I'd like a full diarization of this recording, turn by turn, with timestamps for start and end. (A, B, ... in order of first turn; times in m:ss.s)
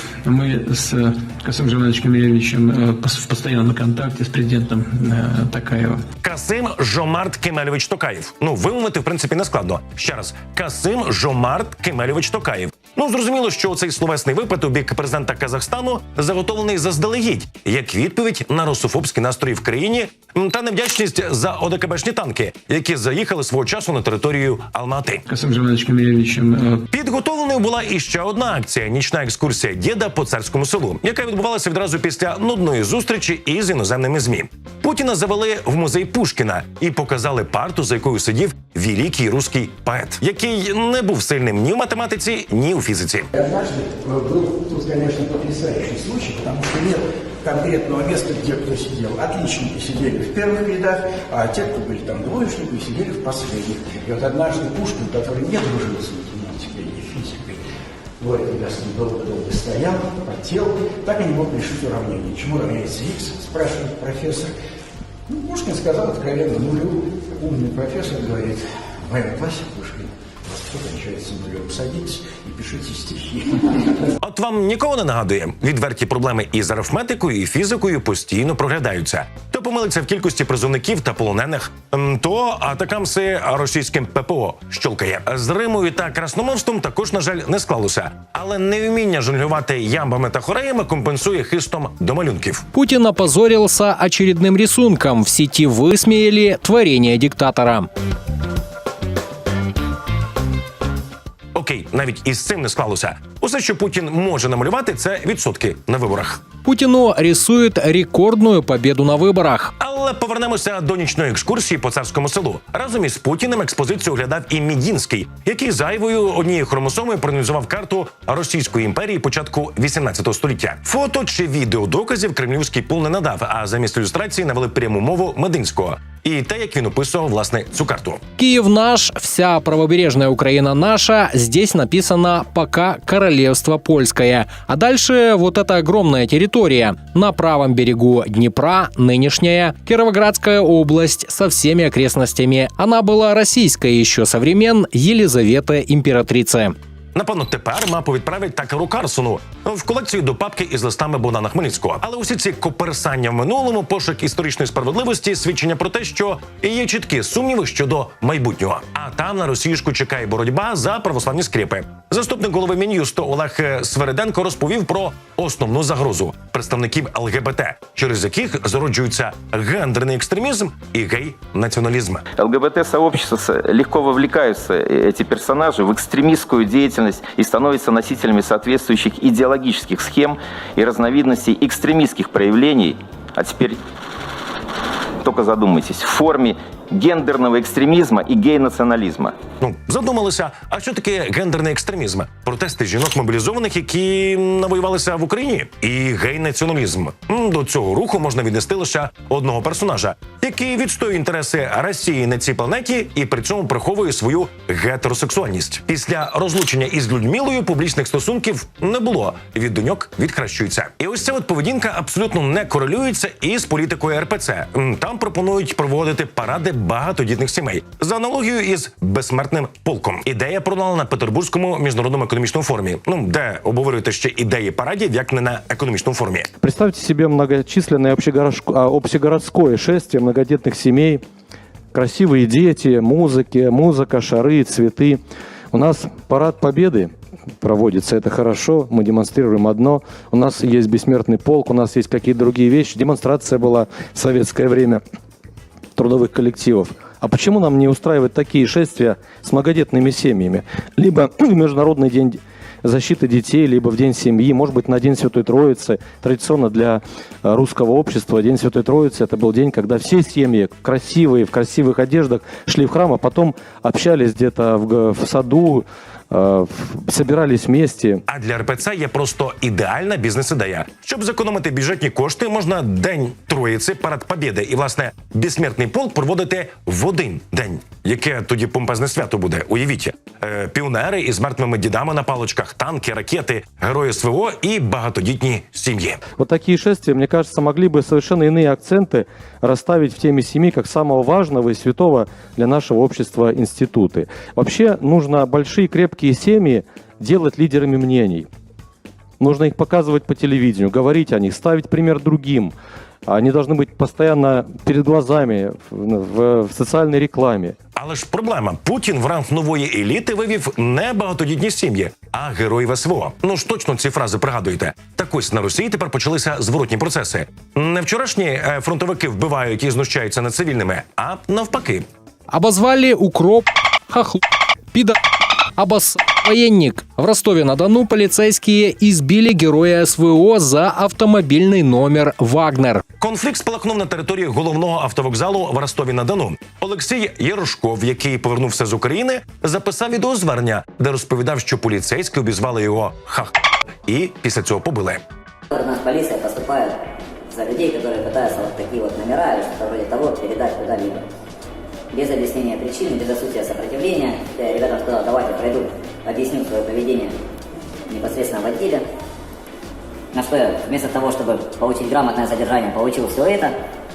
0:00.2-0:06.0 A
0:06.2-0:25.2 B
0:25.3-0:26.8 A
0:26.9-0:43.2 B
0:43.4-0:57.6 C
0:58.2-1:04.5 C
1:05.3-1:13.9 C
1:14.2-1:32.6 B
1:32.7-1:37.9 D
1:41.5-1:46.5 B
1:46.6-1:49.7 D
1:49.8-2:08.2 B
2:08.4-2:26.7 D
2:27.1-2:52.2 B
2:52.4-3:03.8 E
3:05.2-3:09.3 E
3:09.6-3:46.5 B
3:46.6-3:51.2 F
3:51.9-3:55.2 F
3:55.7-3:57.1 F
3:57.6-4:05.0 F
4:06.0-4:28.2 F
4:28.3-4:46.2 B
4:46.4-4:58.5 F
4:59.4-5:02.7 F
5:03.3-5:07.8 F
5:08.0-5:22.0 B
5:22.5-5:24.4 D
5:25.8-5:33.0 D
5:33.2-5:43.5 B
5:44.1-5:45.2 B
5:45.7-5:47.0 G
5:47.5-5:51.2 G
5:52.1-5:57.3 G
5:58.1-5:59.0 G
6:00.3-6:03.7 G